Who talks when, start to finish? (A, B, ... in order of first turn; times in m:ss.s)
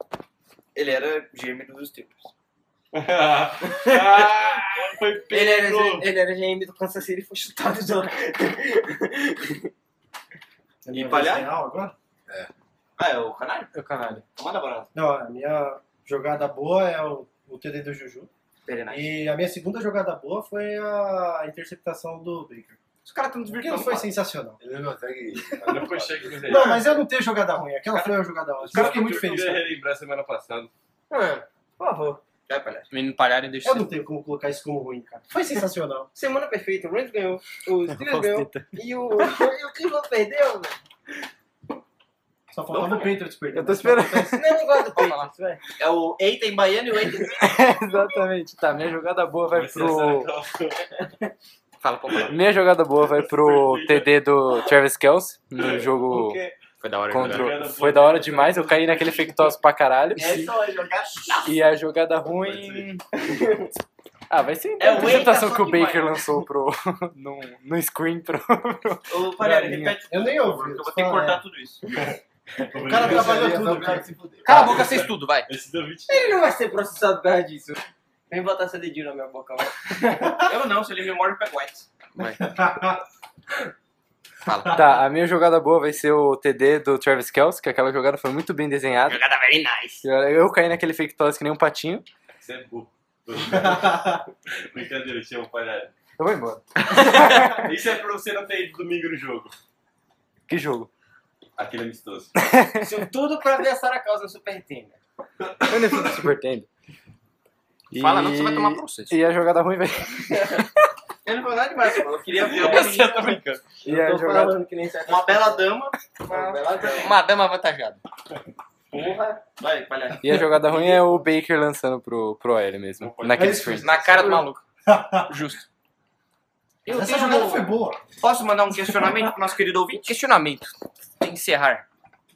0:00.7-0:02.3 A
0:02.9-0:06.0 B
0:03.8-0:04.3 C
0:05.3-0:09.6 C
0:10.8-0:11.9 D
0:10.9-0:11.5 A
0:13.0-0:13.7 A
0:13.7-0:14.2 E
0:14.3-0:14.9 A
0:14.9-0:18.3 D
0:18.7-0:18.9 C
0:18.7-0:19.1 A
0:18.9-0:22.8 D
0:23.0-0:24.1 A
0:23.5-0:24.6 D
0:24.6-0:26.7 F
0:25.6-0:26.9 B
0:26.4-0:29.7 D
0:27.9-0:28.2 A
0:28.6-0:30.7 B
0:28.7-0:29.1 A
0:31.1-0:32.2 C
0:32.5-0:32.9 A
0:32.9-0:33.9 G
0:33.6-0:36.1 D
0:36.1-0:40.8 C
0:37.9-0:38.7 E
0:42.5-0:44.4 D
0:43.5-0:45.0 E
0:44.3-0:45.6 C
0:45.8-0:47.4 A
0:47.4-0:50.3 E
0:49.5-0:50.8 B
0:51.8-0:52.4 G
0:52.3-0:56.4 E
0:53.0-0:54.2 B
0:55.6-0:55.8 B
0:56.8-0:57.5 G
0:57.1-1:00.5 E
0:57.1-0:59.5 B
1:00.2-1:01.5 A
1:01.4-1:03.0 E
1:02.4-1:02.9 B
1:03.1-1:03.7 C
1:04.3-1:10.0 E
1:04.8-1:06.3 A
1:09.1-1:11.8 A
1:10.0-1:11.4 D
1:12.7-1:13.9 B
1:12.7-1:14.1 D
1:12.9-1:14.8 F
1:14.4-1:15.5 G
1:14.4-1:16.4 B
1:16.1-1:20.2 C
1:20.4-1:21.8 A
1:22.2-1:23.0 D
1:24.4-1:24.8 G
1:24.7-1:29.2 E
1:29.0-1:30.0 G
1:30.0-1:32.0 E
1:32.4-1:35.9 B
1:33.4-1:34.2 D
1:36.2-1:37.7 E
1:37.0-1:37.6 G
1:37.5-1:39.5 B
1:40.5-1:40.9 E
1:41.6-1:42.3 B
1:42.4-1:43.0 E
1:42.8-1:45.0 C
1:45.6-1:46.7 E
1:45.7-1:46.0 B
1:47.9-1:50.8 E
1:47.9-1:49.2 G
1:51.2-1:53.2 A
1:52.3-1:53.6 G
1:52.6-1:53.2 C
1:53.8-1:54.6 E
1:53.8-1:55.7 C
1:55.0-1:56.9 A
1:56.2-1:57.1 C
1:57.0-1:58.0 G
1:58.9-2:00.6 A
2:00.2-2:04.0 E
2:03.0-2:03.8 B
2:03.3-2:05.3 D
2:03.8-2:04.6 G
2:05.3-2:05.6 G
2:06.9-2:07.6 G
2:06.9-2:08.0 D
2:08.2-2:10.1 A
2:10.0-2:11.8 G